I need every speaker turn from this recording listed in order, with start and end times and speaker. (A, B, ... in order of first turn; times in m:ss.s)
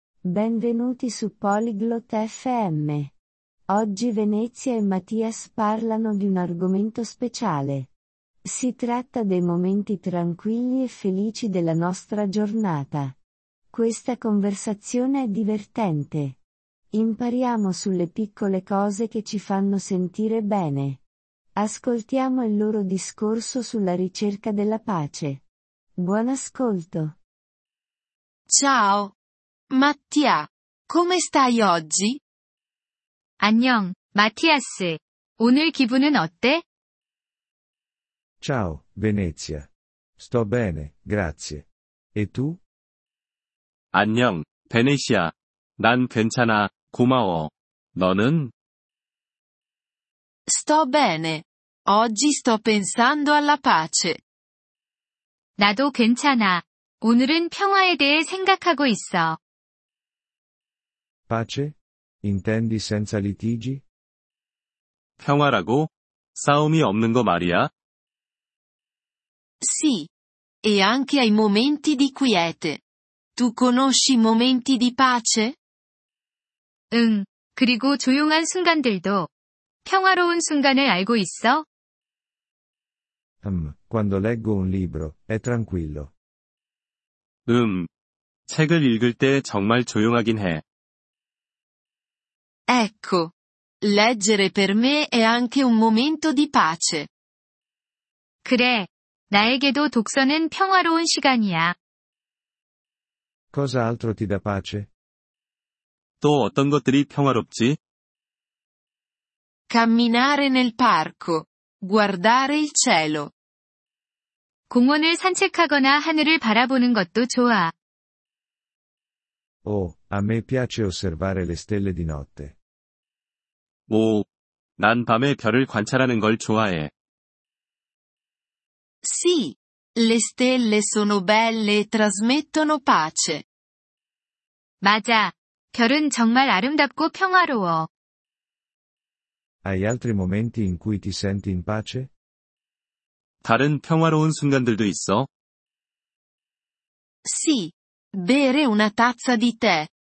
0:00.2-0:03.1 A
0:03.7-0:07.9 A
0:08.4-0:13.1 A
0:13.7-0:16.4 A
0:16.9-0:21.0 A
0:21.6-0:25.4 A
0:26.0-0:27.2 A
0:28.5-0:29.1 B
0:29.7-0:32.2 B
0:33.4-0:36.6 C
0:38.4-0:42.6 D
0:43.9-0:48.5 E
0:50.5-0:54.2 B
0:55.6-0:59.4 C
1:01.3-1:03.8 D
1:05.2-1:07.7 E
1:09.6-1:10.1 B
1:10.6-1:12.8 B
1:13.4-1:15.6 B
1:16.9-1:19.3 C
1:19.8-1:21.6 C
1:23.4-1:26.1 D
1:27.5-1:27.9 E
1:28.5-1:30.6 E
1:32.7-1:37.1 B
1:38.4-1:41.7 C
1:43.5-1:44.9 D
1:46.2-1:47.8 E
1:49.7-1:53.3 B
1:54.7-1:57.7 C
1:59.6-2:02.6 D
2:03.9-2:04.3 E
2:04.8-2:06.9 E
2:09.0-2:13.4 B
2:14.8-2:17.9 C
2:19.6-2:22.1 D
2:23.4-2:25.3 E
2:27.2-2:29.9 B